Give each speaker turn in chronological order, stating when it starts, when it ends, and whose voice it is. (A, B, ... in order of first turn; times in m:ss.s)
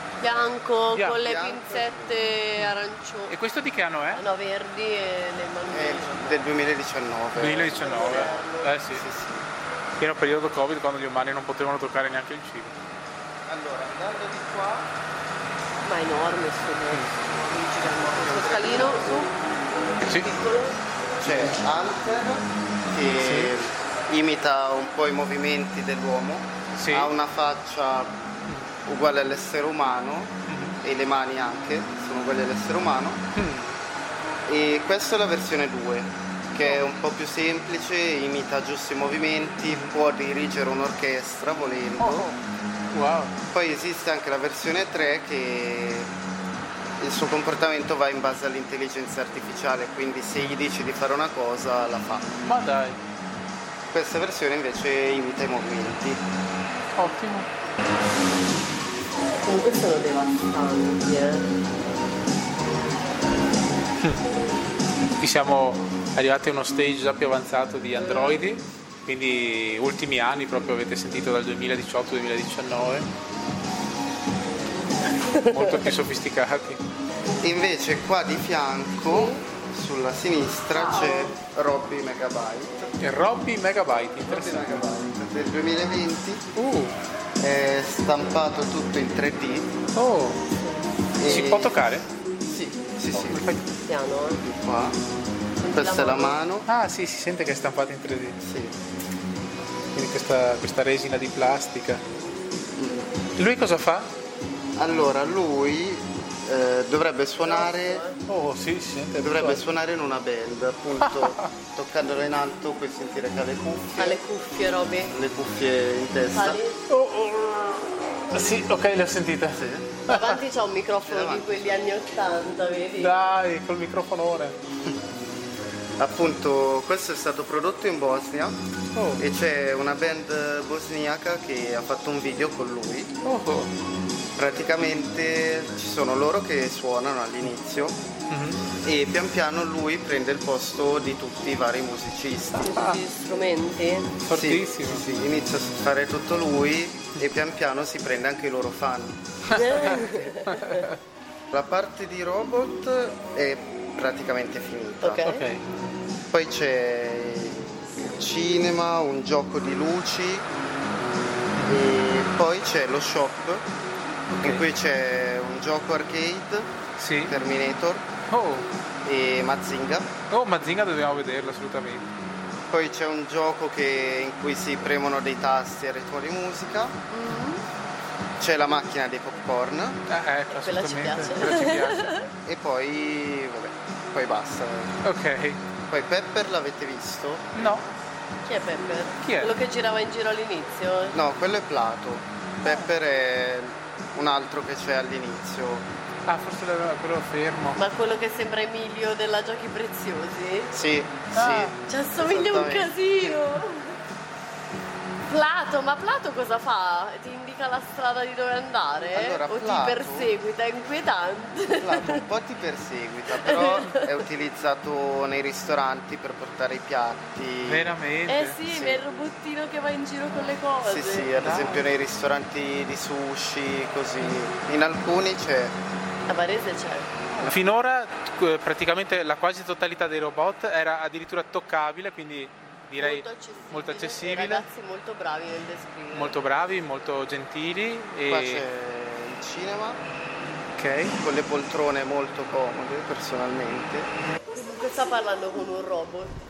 0:00.2-0:03.3 A
0:00.9-0:01.2 B
0:01.1-0:02.2 C
0:03.3-0:04.2 B
0:04.1-0:06.5 A
0:05.7-0:09.5 C
0:07.4-0:09.0 B
0:07.6-0:08.7 A
0:10.0-0:12.7 B
0:13.4-0:14.9 C
0:15.8-0:19.4 A
0:18.2-0:19.3 C
0:20.1-0:20.8 A
0:21.2-0:28.1 C
0:21.2-0:21.5 B
0:23.2-0:23.5 B
0:26.8-0:27.1 B
0:28.8-0:33.2 C
0:30.5-0:30.8 B
0:33.3-0:33.7 B
0:34.4-0:42.3 C
0:42.0-0:42.4 B
0:42.9-0:43.3 B
0:43.5-0:46.1 C
0:47.0-0:52.4 C
0:52.4-0:53.0 B
0:53.9-0:56.2 C
0:56.9-0:57.5 B
0:59.4-1:01.5 A
1:05.2-1:13.1 B
1:08.0-1:08.4 A
1:15.4-1:16.8 B
1:17.4-1:22.9 C
1:19.1-1:19.4 A
1:20.7-1:21.3 A
1:23.0-1:24.8 B
1:24.2-1:26.4 C
1:26.6-1:26.9 B
1:27.4-1:29.7 C
1:29.9-1:30.4 B
1:31.2-1:31.8 C
1:31.2-1:32.0 B
1:32.5-1:33.4 C
1:33.3-1:33.6 B
1:33.8-1:34.4 A
1:34.4-1:35.0 C
1:35.6-1:36.4 A
1:35.7-1:36.7 C
1:36.7-1:38.4 B
1:38.4-1:38.8 C
1:39.9-1:42.0 B
1:42.8-1:43.1 C
1:43.4-1:44.1 B
1:44.8-1:48.0 C
1:47.4-1:48.2 A
1:48.3-1:49.6 B
1:49.2-1:54.2 C
1:51.0-1:51.4 B
1:54.0-1:55.1 A
1:55.1-1:56.6 C
1:56.3-1:56.8 A
1:56.9-2:00.4 B
1:59.5-2:00.0 C
2:00.1-2:03.1 A
2:01.0-2:02.1 C
2:03.0-2:04.6 B
2:06.0-2:08.6 C
2:08.9-2:09.2 B
2:09.2-2:13.1 C
2:13.2-2:13.7 B
2:14.4-2:18.0 C
2:18.3-2:18.6 B
2:18.8-2:22.7 C
2:22.6-2:23.0 B
2:22.6-2:24.1 A
2:24.2-2:25.0 B
2:24.3-2:29.2 C
2:29.5-2:30.8 A
2:29.5-2:30.9 B
2:31.5-2:35.2 C
2:35.0-2:35.4 A
2:35.2-2:35.6 B
2:36.3-2:40.5 C
2:41.6-2:41.8 B
2:41.6-2:43.7 C
2:44.3-2:44.6 B
2:44.4-2:46.7 C
2:47.0-2:47.3 B
2:47.3-2:48.1 C
2:48.3-2:48.7 B
2:49.0-2:50.2 C
2:50.3-2:52.0 B
2:52.7-2:57.0 C
2:57.1-2:57.6 A
2:58.4-3:00.0 C
3:00.1-3:02.1 B
3:00.5-3:02.2 A
3:02.4-3:05.0 C
3:05.0-3:05.6 B
3:05.9-3:07.8 C
3:07.5-3:07.8 B
3:08.4-3:11.2 A
3:09.2-3:09.5 B
3:11.1-3:15.9 C
3:12.6-3:12.9 B
3:16.2-3:17.8 B
3:17.8-3:20.7 A
3:20.7-3:23.5 C
3:21.3-3:21.7 B
3:21.9-3:24.0 A
3:25.3-3:32.2 A
3:29.1-3:30.3 C
3:31.7-3:37.9 C
3:33.4-3:34.0 A
3:37.6-3:38.6 B
3:38.3-3:41.3 A
3:38.6-3:39.0 C
3:40.8-3:45.8 C
3:41.4-3:41.8 B
3:46.3-3:47.1 A
3:47.4-3:54.6 B
3:53.0-3:56.3 A
3:56.1-3:58.6 B
3:58.3-4:00.0 C
4:00.8-4:01.2 B
4:01.2-4:04.1 C
4:04.5-4:06.3 A